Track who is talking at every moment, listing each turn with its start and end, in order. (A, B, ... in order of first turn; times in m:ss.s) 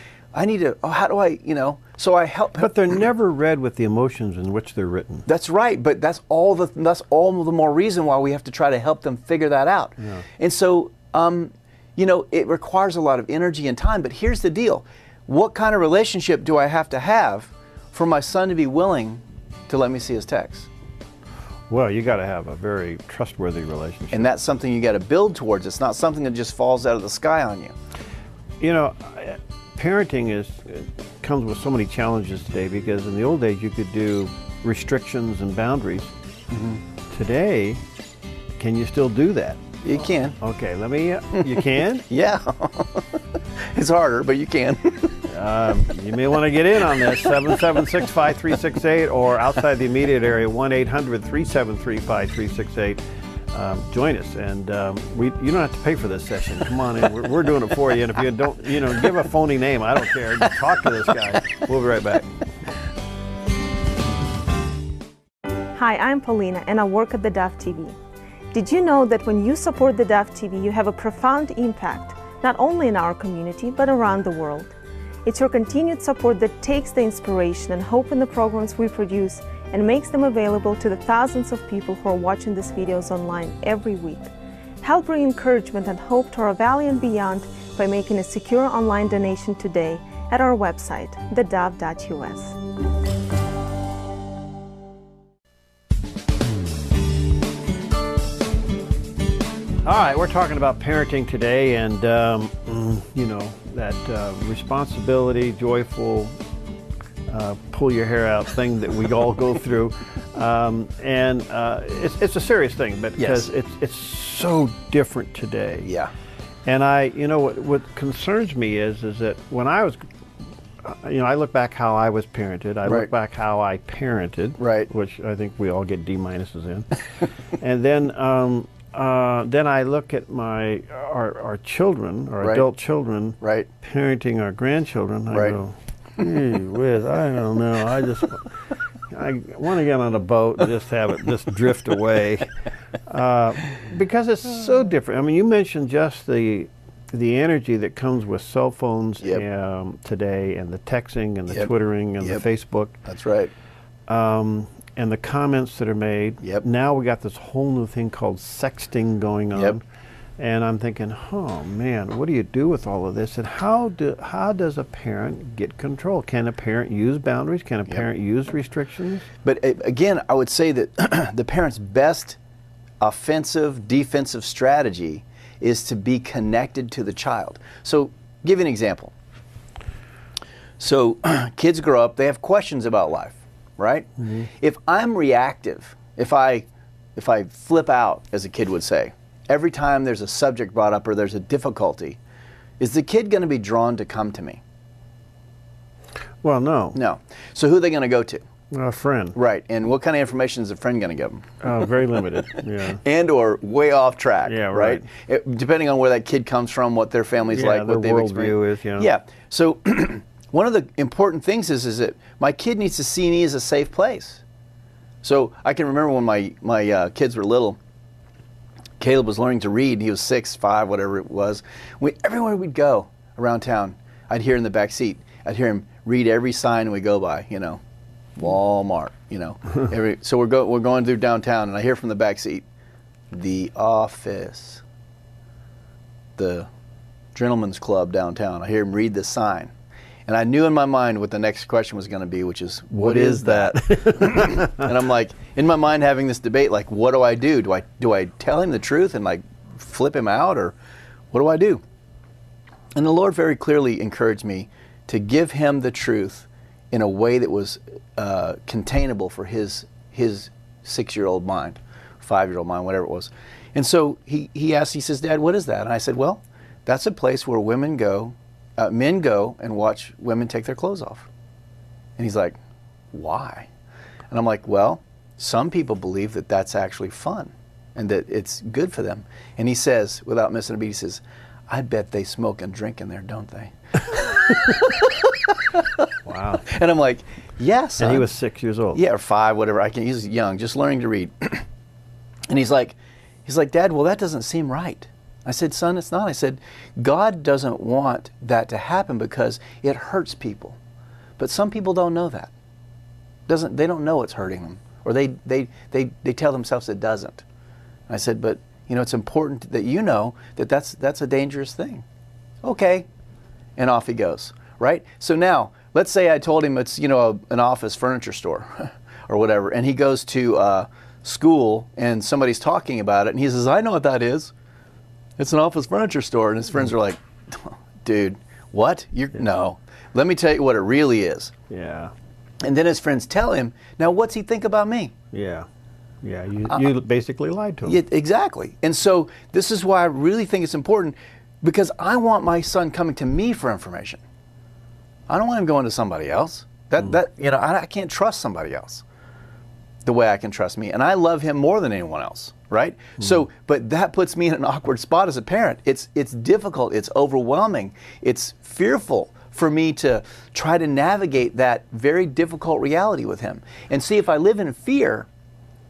0:00.3-0:02.7 A
0:02.6-0:05.3 B
0:05.3-0:20.7 A
0:10.0-0:10.2 B
0:21.7-0:24.3 B
0:24.1-0:27.7 A
0:28.6-0:36.1 B
0:36.5-0:36.8 A
0:37.1-0:37.8 B
0:38.6-0:39.6 B
0:39.8-0:40.4 A
0:40.4-0:42.1 B
0:41.4-0:43.2 A
0:43.7-0:45.2 A
0:45.3-0:53.0 B
0:53.5-1:02.3 B
1:05.8-1:08.0 C
1:08.5-1:14.7 C
1:15.2-1:24.3 C
1:24.8-1:32.6 C
1:39.8-1:46.3 B
1:47.3-1:55.9 B
1:53.2-1:53.5 A
1:55.8-1:56.1 A
1:56.7-2:00.0 B
2:00.8-2:06.9 B
2:04.6-2:04.9 A
2:07.6-2:18.5 B
2:12.4-2:12.7 A
2:13.4-2:13.7 A
2:15.3-2:15.6 A
2:19.1-2:22.5 B
2:23.1-2:33.0 B
2:31.5-2:32.4 A
2:33.1-2:33.5 A
2:34.1-2:39.8 B
2:40.4-2:49.3 B
2:49.4-2:52.4 A
2:53.0-2:59.1 A
3:00.8-3:12.2 A
3:12.8-3:14.6 A
3:16.4-3:17.0 B
3:16.9-3:18.4 A
3:18.7-3:19.4 B
3:19.4-3:21.6 A
3:21.6-3:23.0 B
3:22.5-3:34.4 A
3:24.4-3:25.1 B
3:27.5-3:29.1 B
3:35.2-3:37.8 A
3:39.0-3:47.8 A
3:48.4-3:52.6 A
3:53.3-3:54.8 A
3:56.4-3:56.7 A
3:57.4-3:59.7 A
4:00.3-4:10.8 A
4:03.0-4:04.9 B
4:11.3-4:11.8 A
4:13.0-4:31.3 A
4:32.2-4:32.6 A
4:33.1-4:33.7 A
4:34.3-4:45.9 A
4:46.3-4:46.6 B
4:46.7-4:48.3 A
4:48.0-4:49.0 B
4:48.9-4:51.7 A
4:52.5-5:00.8 A
5:01.4-5:02.5 A
5:03.5-5:07.4 A
5:08.1-5:12.0 A
5:12.6-5:13.1 A
5:13.8-5:24.5 A
5:25.4-5:31.5 A
5:31.7-5:32.1 B
5:32.6-5:35.1 A
5:35.3-5:35.7 B
5:36.2-5:38.0 B
5:37.8-5:44.2 A
5:45.3-5:49.0 A
5:50.0-6:05.3 A